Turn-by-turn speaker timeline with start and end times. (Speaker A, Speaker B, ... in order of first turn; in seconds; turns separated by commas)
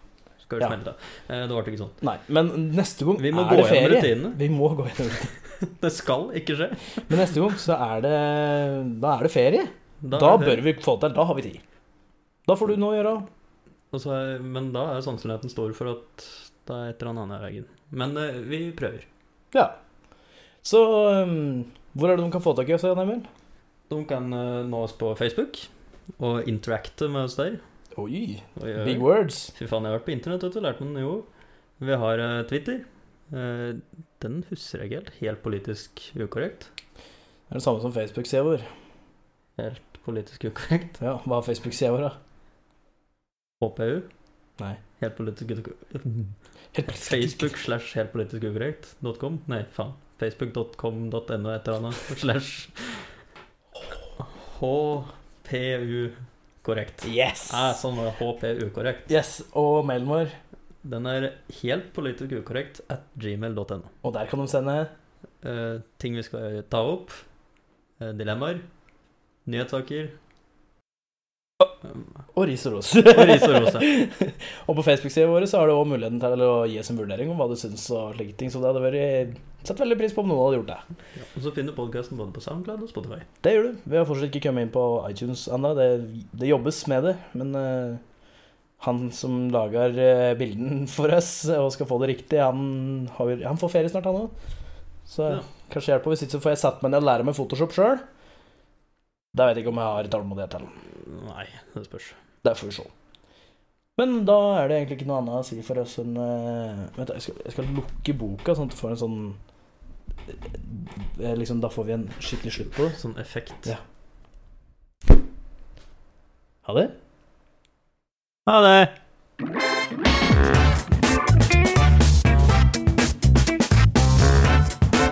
Speaker A: 0.4-2.0, Speaker B: 2.0-5.3, Speaker A: 3.2-4.4, Speaker A: 5.6-6.8, Speaker B: 7.1-11.6, Speaker A: 10.0-10.7, Speaker B: 12.5-13.3, Speaker A: 13.9-19.1, Speaker B: 20.6-23.3, Speaker A: 23.9-27.6, Speaker B: 28.0-29.5, Speaker A: 28.6-31.3, Speaker A: 31.8-36.7, Speaker B: 37.5-38.6, Speaker A: 39.6-41.0, Speaker B: 41.0-42.1, Speaker A: 43.6-44.1, Speaker A: 45.0-46.3, Speaker B: 46.7-47.6, Speaker A: 46.9-53.1, Speaker A: 54.2-59.1, Speaker B: 57.0-57.8, Speaker B: 59.1-60.4, Speaker A: 60.8-63.9, Speaker B: 64.0-64.9, Speaker A: 65.4-67.2, Speaker A: 68.0-68.6, Speaker A: 69.5-70.2, Speaker B: 72.3-80.8, Speaker A: 73.1-73.9, Speaker A: 81.2-83.3, Speaker B: 83.4-88.0, Speaker B: 88.8-94.3, Speaker B: 95.1-98.0, Speaker B: 99.3-100.7, Speaker A: 100.9-102.2, Speaker B: 102.4-102.9, Speaker B: 104.0-109.4, Speaker B: 110.3-113.0, Speaker A: 112.9-113.7, Speaker B: 116.7-116.9, Speaker A: 118.5-118.9